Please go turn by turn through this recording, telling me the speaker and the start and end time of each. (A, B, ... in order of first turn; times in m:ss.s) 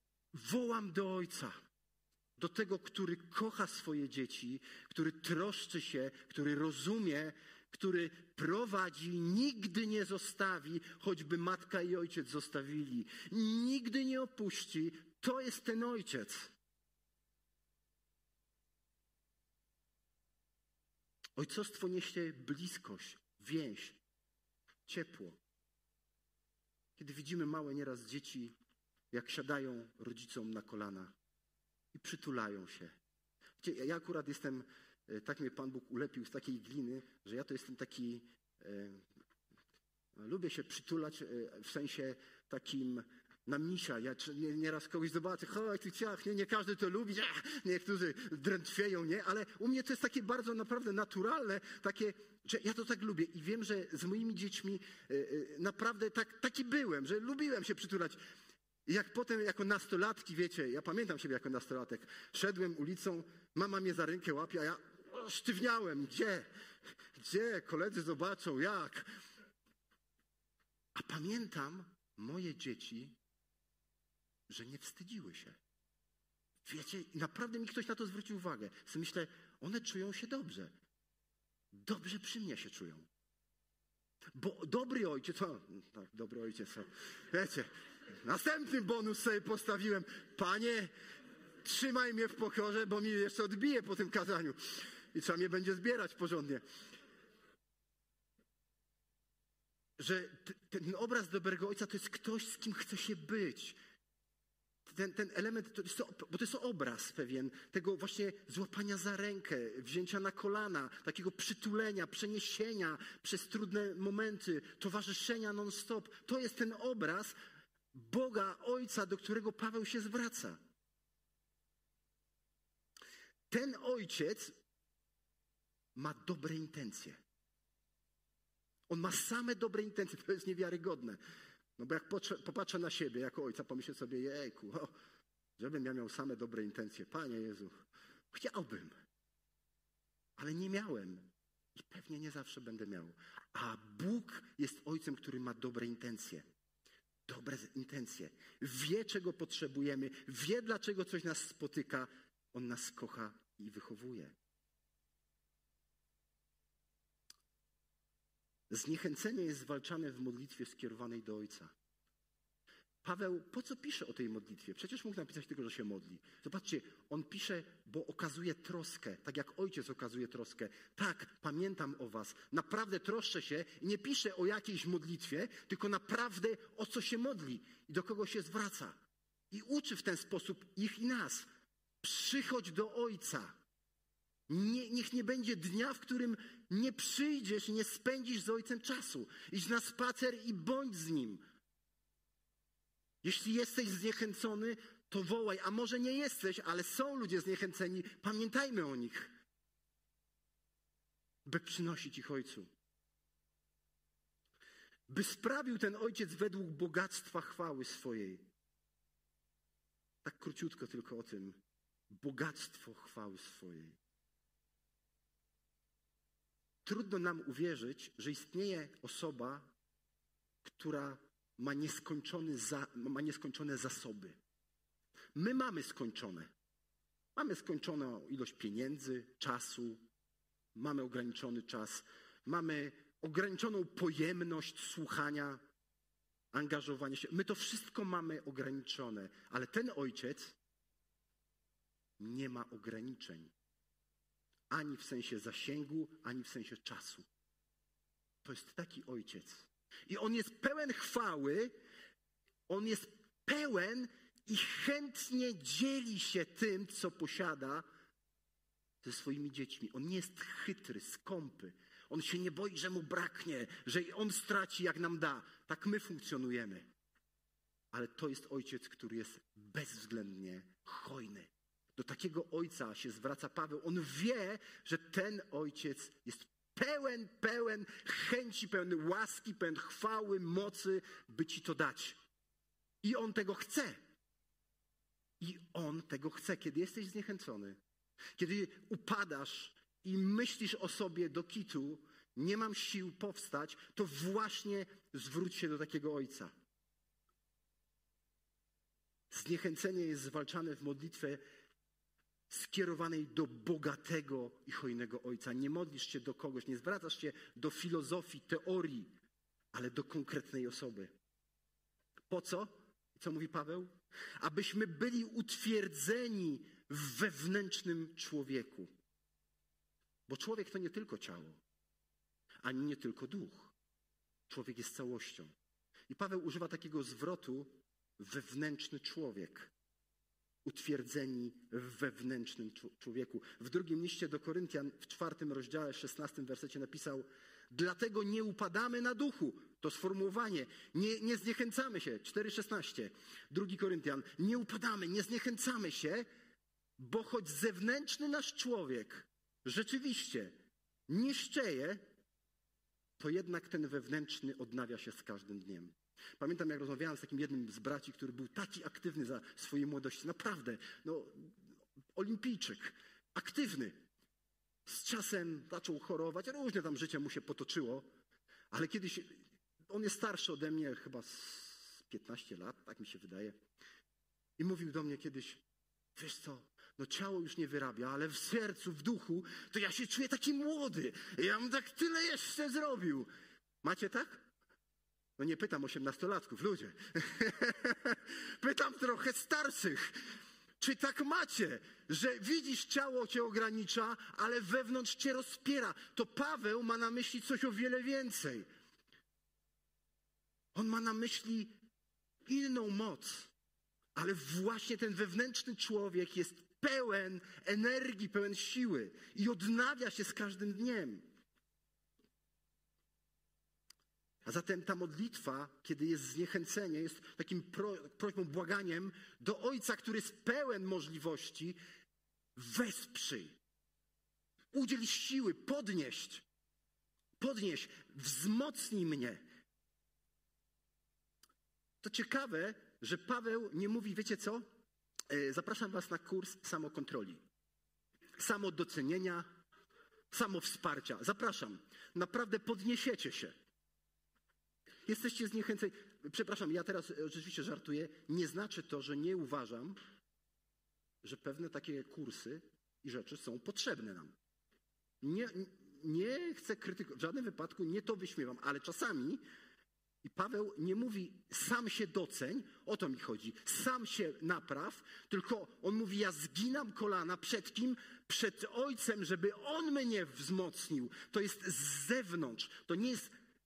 0:00.3-0:01.6 A
0:02.4-0:16.5 A
0:21.4-0:24.0 A
0:24.9-0:25.4 A
0:27.0-0:28.5 A
0:29.1-0:31.1 A
0:31.9-0:33.0 A
0:33.6-0:39.1 A
0:40.2-0:58.2 A
0:58.9-1:06.5 A
1:07.2-1:09.1 A
1:11.0-1:13.2 A
1:14.5-1:15.6 A
1:16.6-1:20.8 A
1:21.7-1:23.1 A
1:24.3-1:30.9 A
1:31.6-1:36.6 A
1:40.0-1:43.8 A
1:44.9-1:57.4 A
1:57.9-2:00.6 A
2:03.5-2:04.6 A
2:06.0-2:07.2 A
2:08.9-2:11.2 A
2:11.8-2:14.9 A
2:15.6-2:17.8 A
2:18.3-2:19.0 A
2:20.4-2:26.4 A
2:27.3-2:34.4 A
2:38.7-2:41.7 A
2:43.0-2:59.0 A
2:59.5-3:01.5 A
3:02.0-3:03.6 A
3:04.5-3:11.4 A
3:13.2-3:19.3 A
3:21.4-3:22.7 A
3:25.1-3:28.5 A
3:30.2-3:34.0 A
3:36.8-3:39.7 A
3:40.6-3:44.4 A
3:45.3-3:46.5 A
3:47.4-3:50.0 A
3:50.7-3:55.6 A
3:56.5-4:00.6 A
4:02.2-4:03.5 A
4:04.7-4:07.3 A
4:08.4-4:11.8 A
4:12.7-4:17.8 A
4:19.0-4:26.9 A
4:27.9-4:42.2 A
4:43.0-4:44.0 A
4:45.4-4:47.8 A
4:48.4-4:56.5 A
4:59.3-5:01.4 A
5:02.5-5:09.1 A
5:09.7-5:11.2 A
5:12.3-5:18.9 A
5:20.3-5:21.6 A
5:22.6-5:23.7 A
5:24.5-5:25.5 A
5:26.1-5:29.7 A
5:30.6-5:46.3 A
5:47.0-5:52.0 A
5:53.2-6:01.6 A
6:02.2-6:04.0 A
6:04.9-6:08.1 A
6:08.7-6:13.6 A
6:14.6-6:15.6 A
6:16.2-6:23.3 A
6:23.8-6:24.5 A
6:25.4-6:38.7 A
6:40.8-6:41.8 A
6:42.5-6:43.5 A
6:44.2-6:51.3 A
6:54.4-7:01.8 A
7:02.6-7:03.6 A
7:04.7-7:06.5 A
7:07.4-7:09.4 A
7:12.0-7:14.7 A
7:15.3-7:17.4 A
7:18.4-7:19.5 A
7:20.3-7:23.6 A
7:25.1-7:30.0 A
7:31.2-7:34.4 A
7:35.2-7:39.4 A
7:40.2-7:53.3 A